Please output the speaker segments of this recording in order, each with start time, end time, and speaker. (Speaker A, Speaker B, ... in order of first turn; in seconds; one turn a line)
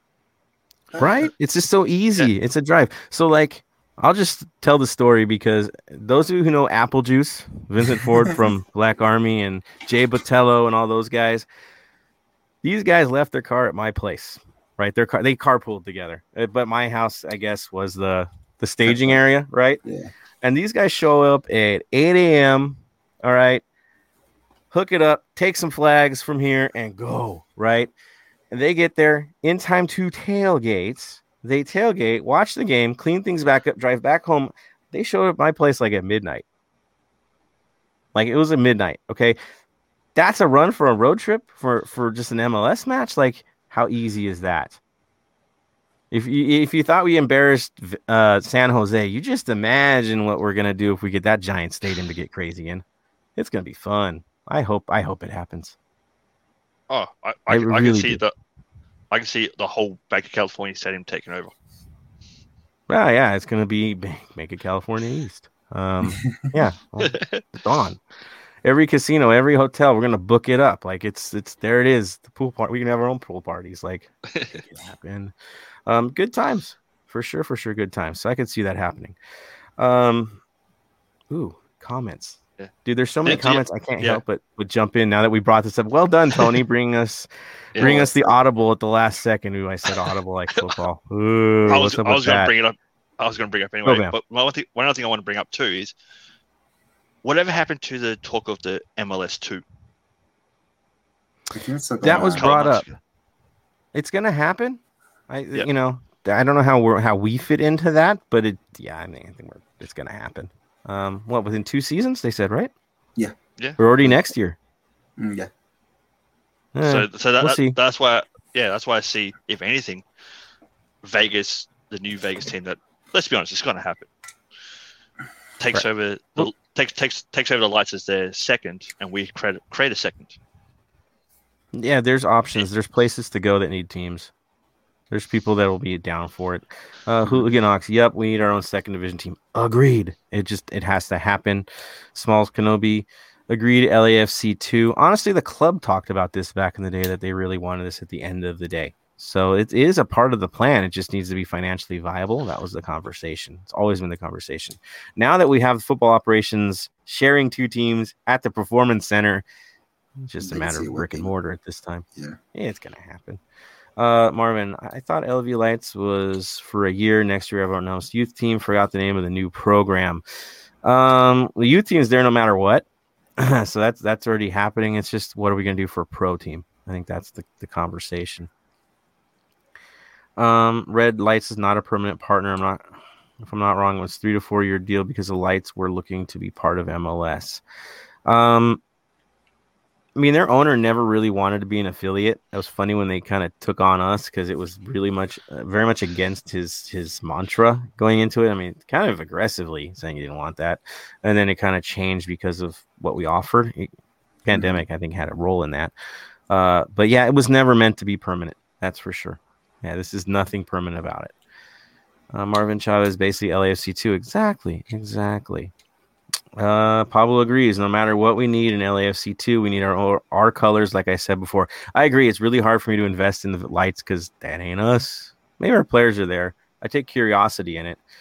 Speaker A: 0.9-1.3
Speaker B: 1.0-11.5
Speaker B: 12.6-19.8
Speaker A: 18.9-19.2
Speaker A: 19.8-20.1
Speaker B: 20.4-23.6
Speaker B: 24.7-27.9
Speaker B: 28.5-36.5
Speaker B: 38.1-39.4
Speaker B: 40.1-44.8
Speaker B: 46.1-52.8
Speaker B: 53.4-55.8
Speaker C: 56.9-58.3
Speaker B: 57.5-58.2
Speaker C: 59.1-61.5
Speaker B: 62.9-68.0
Speaker A: 66.1-66.4
Speaker C: 67.0-67.5
Speaker B: 68.6-74.1
Speaker C: 74.3-74.6
Speaker B: 74.7-75.3
Speaker B: 75.9-79.2
Speaker B: 79.8-80.4
Speaker B: 81.3-92.5
Speaker C: 83.3-84.2
Speaker C: 87.8-88.1
Speaker C: 91.7-96.0
Speaker B: 93.8-94.2
Speaker C: 97.2-99.6
Speaker A: 101.5-102.5
Speaker B: 102.0-102.9
Speaker C: 102.1-103.0
Speaker B: 103.9-112.7
Speaker B: 113.8-114.6
Speaker A: 115.2-115.5
Speaker B: 116.8-117.8
Speaker C: 116.8-120.0
Speaker C: 121.0-124.1
Speaker C: 125.6-130.4
Speaker B: 131.7-134.3
Speaker B: 135.1-159.4
Speaker B: 160.2-163.4
Speaker A: 160.4-161.3
Speaker B: 164.0-170.2
Speaker B: 170.8-172.8
Speaker B: 173.4-178.5
Speaker B: 180.4-182.9
Speaker B: 183.4-187.6
Speaker B: 188.3-188.8
Speaker B: 190.2-203.9
Speaker B: 204.4-205.9
Speaker A: 204.5-204.8
Speaker B: 206.5-211.3
Speaker B: 212.3-215.7
Speaker B: 216.6-228.0